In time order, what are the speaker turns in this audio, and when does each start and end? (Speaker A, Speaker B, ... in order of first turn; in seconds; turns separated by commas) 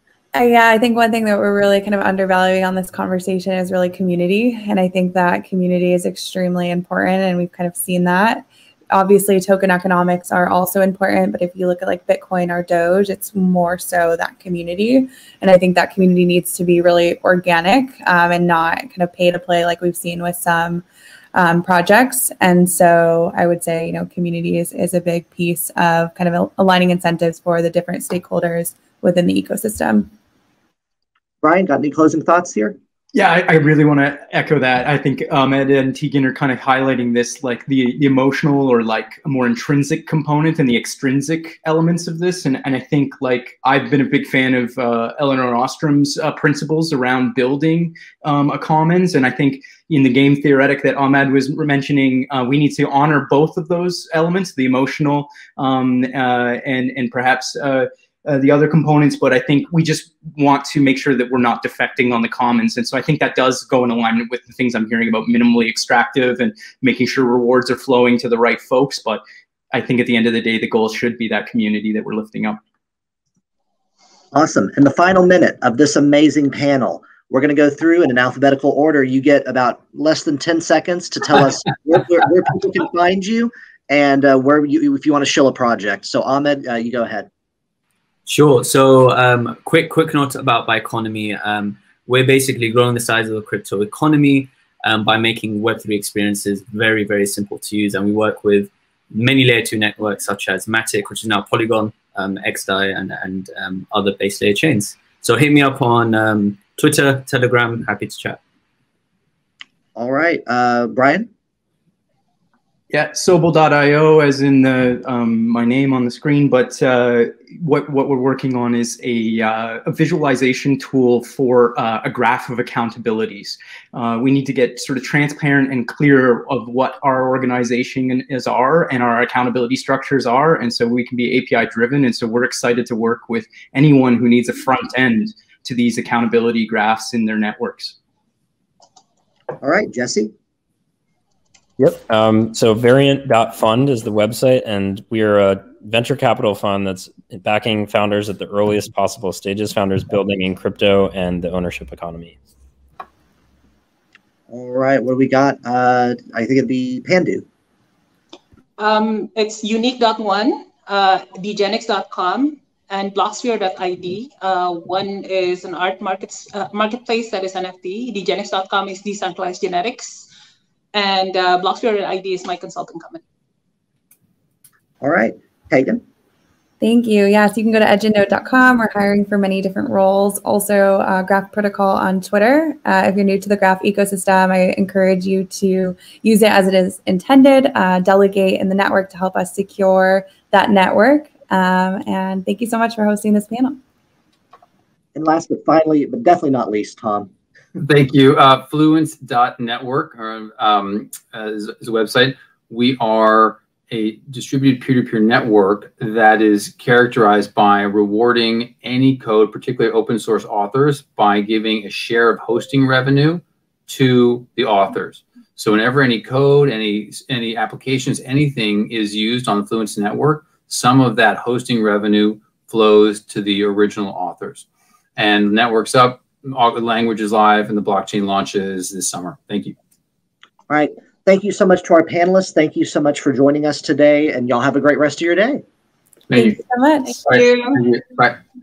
Speaker A: 0.3-30.1, Speaker B: 31.4-32.8, Speaker C: 33.1-72.6, Speaker B: 74.3-87.3, Speaker D: 88.2-108.4, Speaker B: 110.0-111.3, Speaker C: 112.9-137.9, Speaker B: 139.6-140.3, Speaker E: 141.8-152.3, Speaker B: 154.5-157.4, Speaker F: 158.8-170.3, Speaker F: 170.9-173.2, Speaker B: 175.0-176.0, Speaker A: 176.8-193.8, Speaker B: 195.2-197.3, Speaker G: 197.8-224.7, Speaker G: 225.2-229.7, Speaker B: 230.7-235.6, Speaker G: 236.3-236.6, Speaker A: 236.3-237.2, Speaker F: 237.2-237.8, Speaker G: 237.2-238.4